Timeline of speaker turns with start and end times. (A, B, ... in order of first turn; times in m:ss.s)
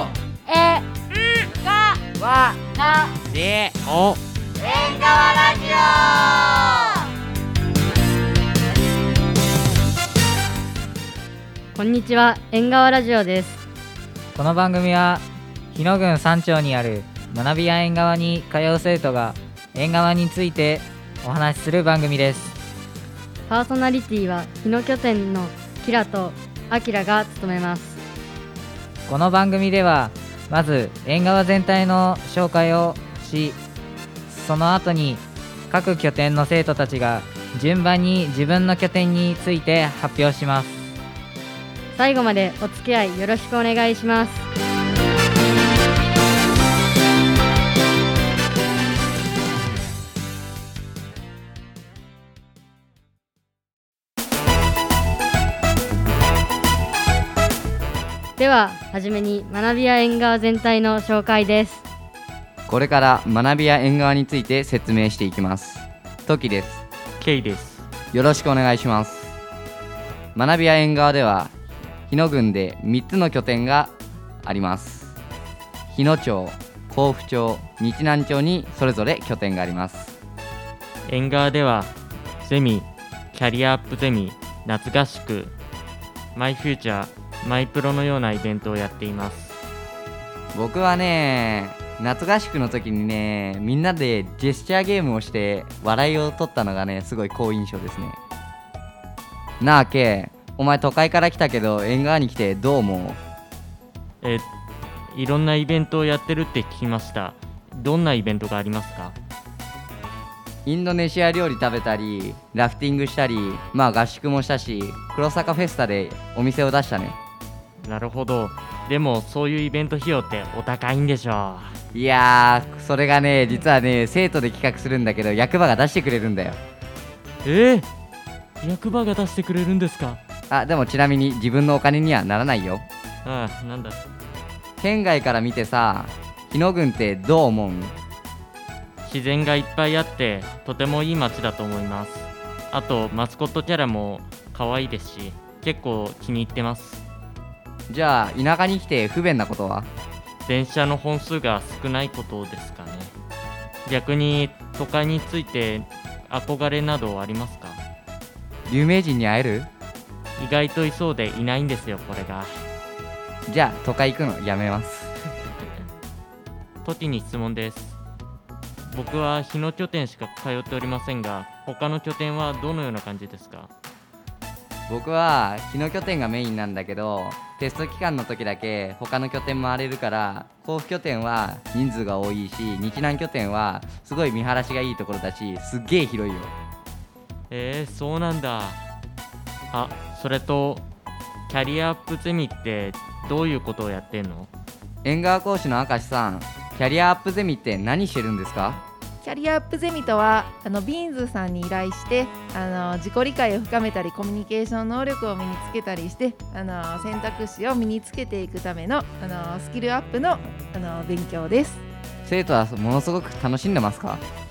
0:00.5-0:00.8 A
0:01.7-0:03.0 A
0:03.8-0:04.2 B
0:04.6-0:06.8 A
0:11.7-0:13.6 C
0:14.3-0:22.5 D
0:23.5-0:28.0 C
0:29.1-0:33.6 D
0:34.3-0:40.8 D
0:41.9-0:44.5 C
0:58.4-1:01.8 C
1:02.7-1:06.8 E
1:07.2-1:07.8 B
1:08.1-1:09.4 E
1:10.4-1:11.5 E
1:12.1-1:13.9 E
1:14.4-1:15.2 E
1:15.9-1:20.1 E
1:21.0-1:25.5 B
1:26.3-1:29.6 B
1:30.5-1:38.2 E
1:39.6-1:43.2 E
1:44.2-1:44.5 B
1:45.1-1:49.2 B
1:50.6-1:57.2 E
1:57.8-2:01.7 B
2:01.9-2:06.6 E
2:07.4-2:07.9 B
2:08.6-2:10.2 B
2:10.5-2:12.8 E
2:13.2-2:14.0 B
2:14.8-2:17.9 E
2:19.0-2:27.0 B
2:27.9-2:29.9 E
2:30.4-2:33.1 B
2:33.8-2:37.8 B
2:38.7-2:39.7 E
2:40.4-2:42.6 B
2:43.5-2:45.1 E
2:46.8-2:48.0 B
2:48.9-2:53.7 B
2:54.9-3:06.5 E
3:07.5-3:08.8 B
3:09.7-3:10.8 B
3:11.5-3:14.5 B
3:15.0-3:18.8 E
3:19.2-3:31.8 F
3:32.2-3:34.2 E